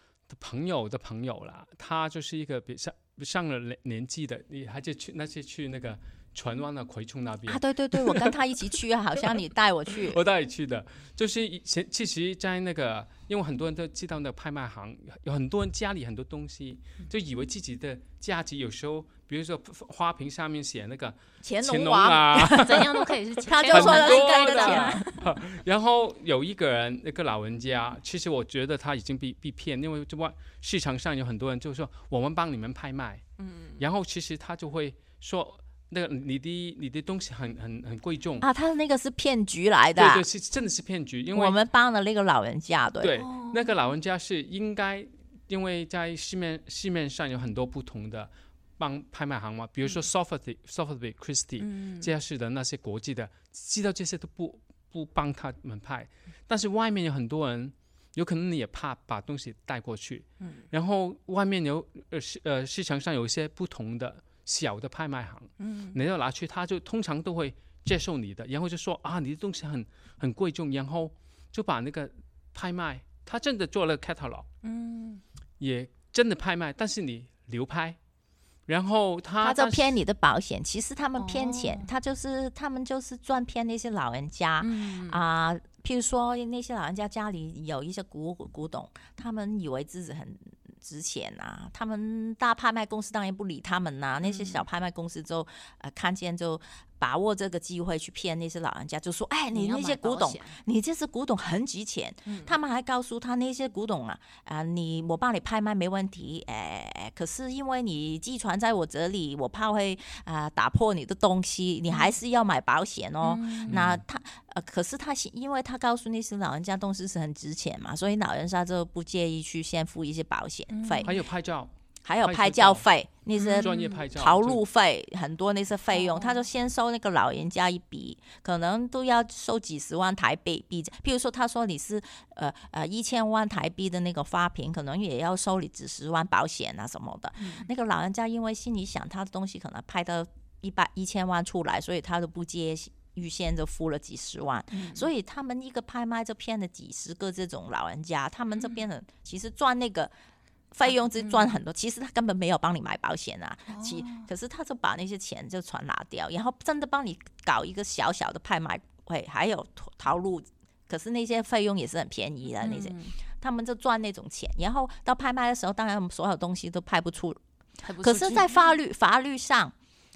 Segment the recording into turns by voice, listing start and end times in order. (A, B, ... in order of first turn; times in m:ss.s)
0:00.3-0:08.4 A
0:07.5-0:10.2 B
0:10.0-0:23.0 A
0:21.4-0:22.9 B
0:22.6-0:25.2 C
0:23.5-0:25.0 B
0:23.7-0:33.2 A
0:33.4-0:33.8 C
0:33.8-0:38.5 A
0:38.4-0:40.3 B
0:40.0-0:41.6 A
0:41.3-0:43.2 B
0:43.0-1:14.5 A
0:43.2-0:43.7 C
0:51.6-0:52.1 C
1:00.4-1:00.6 C
1:05.6-1:06.0 C
1:14.6-1:15.2 C
1:15.6-1:18.0 A
1:18.7-1:20.0 A
1:19.4-2:01.1 B
1:21.2-1:21.9 C
1:24.6-1:25.2 C
1:34.2-1:34.6 C
1:39.5-1:40.6 C
1:42.3-1:42.6 C
1:51.9-1:52.1 C
1:53.2-1:53.8 C
1:53.7-1:54.0 A
2:00.7-2:01.1 C
2:01.0-2:01.7 A
2:02.0-2:30.1 B
2:02.2-2:02.8 A
2:03.3-2:04.0 C
2:03.5-2:04.6 A
2:05.9-2:06.4 C
2:17.4-2:17.7 C
2:24.7-2:25.1 C
2:28.6-2:28.8 C
2:30.7-2:47.4 B
2:31.2-2:31.5 C
2:33.7-2:34.3 C
2:42.6-2:43.2 C
2:47.8-2:48.6 C
2:48.0-2:49.7 B